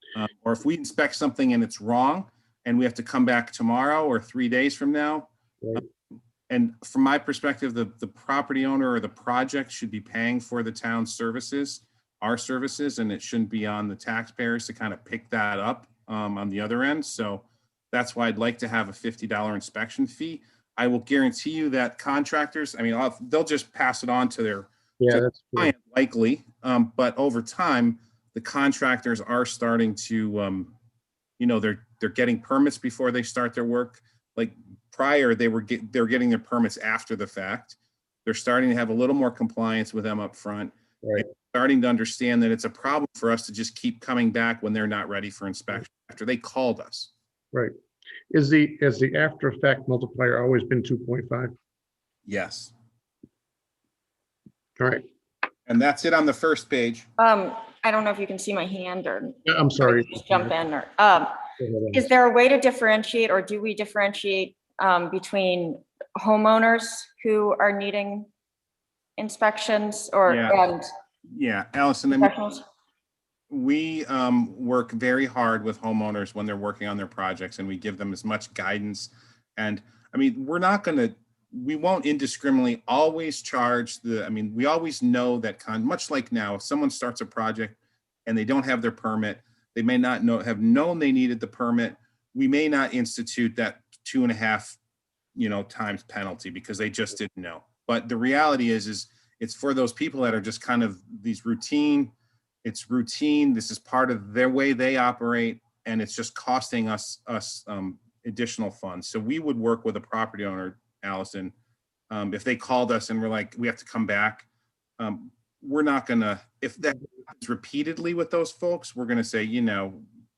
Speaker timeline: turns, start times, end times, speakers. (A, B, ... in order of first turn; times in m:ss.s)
0:00.2-0:05.8 A
0:06.5-0:30.7 A
0:25.0-0:25.7 B
0:31.4-0:47.1 A
0:48.3-0:51.5 B
0:52.3-0:52.7 A
0:54.8-0:55.0 B
0:55.7-0:57.1 A
0:57.2-1:01.3 C
0:59.5-1:00.5 B
1:01.6-1:02.1 B
1:01.9-1:08.3 C
1:09.2-1:10.9 C
1:10.3-1:10.6 A
1:11.3-1:12.3 A
1:12.1-1:12.6 C
1:13.5-1:34.8 A
1:35.4-1:51.5 A
1:52.1-1:54.5 A
1:55.0-2:00.0 A